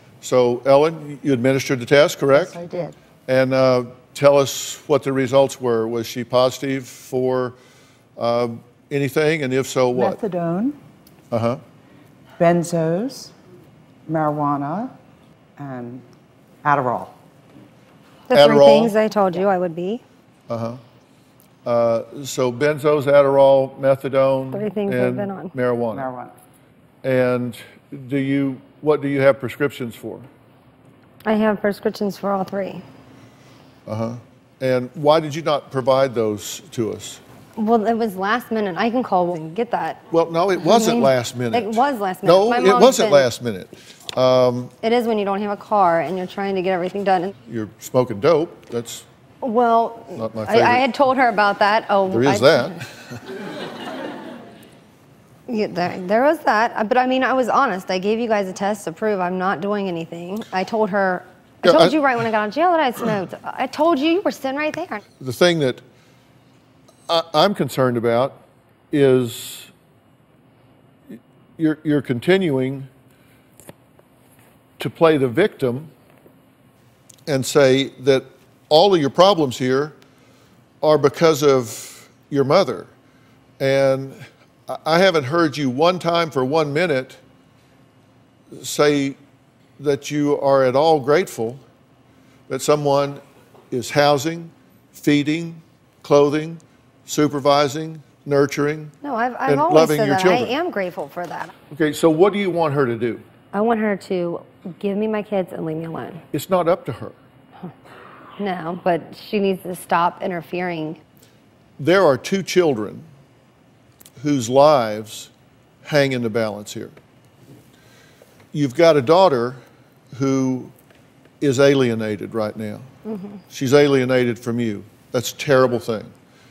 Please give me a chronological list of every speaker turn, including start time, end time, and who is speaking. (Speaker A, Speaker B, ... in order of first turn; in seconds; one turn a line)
Speaker A: 0.2-2.6
Speaker B: 2.3-3.0
Speaker A: 3.3-7.5
Speaker A: 8.2-10.2
Speaker B: 9.9-10.8
Speaker A: 11.3-11.6
Speaker B: 12.4-13.3
Speaker B: 14.1-14.9
Speaker B: 15.6-16.0
Speaker B: 16.6-17.1
Speaker C: 18.3-20.0
Speaker A: 18.3-18.9
Speaker A: 20.5-20.8
Speaker A: 21.6-26.1
Speaker C: 24.5-25.5
Speaker B: 25.9-26.3
Speaker A: 27.0-30.3
Speaker C: 31.2-32.8
Speaker A: 33.9-37.2
Speaker C: 37.6-40.0
Speaker A: 40.1-44.7
Speaker C: 40.6-43.3
Speaker C: 44.8-47.3
Speaker A: 47.5-49.0
Speaker C: 49.4-52.8
Speaker A: 50.1-50.8
Speaker A: 52.1-52.9
Speaker C: 55.5-65.0
Speaker A: 61.6-62.0
Speaker A: 65.2-65.8
Speaker A: 67.1-68.4
Speaker A: 68.9-69.7
Speaker A: 71.6-72.9
Speaker A: 74.8-75.9
Speaker A: 77.3-79.9
Speaker A: 80.8-82.9
Speaker A: 83.6-87.2
Speaker A: 88.5-89.2
Speaker A: 89.8-91.6
Speaker A: 92.5-98.9
Speaker C: 99.0-101.5
Speaker A: 99.5-100.5
Speaker A: 101.7-103.2
Speaker C: 103.5-106.2
Speaker A: 106.3-107.2
Speaker C: 108.4-111.0
Speaker A: 111.8-113.0
Speaker A: 114.2-115.3
Speaker A: 115.8-116.9
Speaker A: 118.5-119.6
Speaker A: 120.1-120.7
Speaker A: 121.4-122.9
Speaker A: 123.5-126.1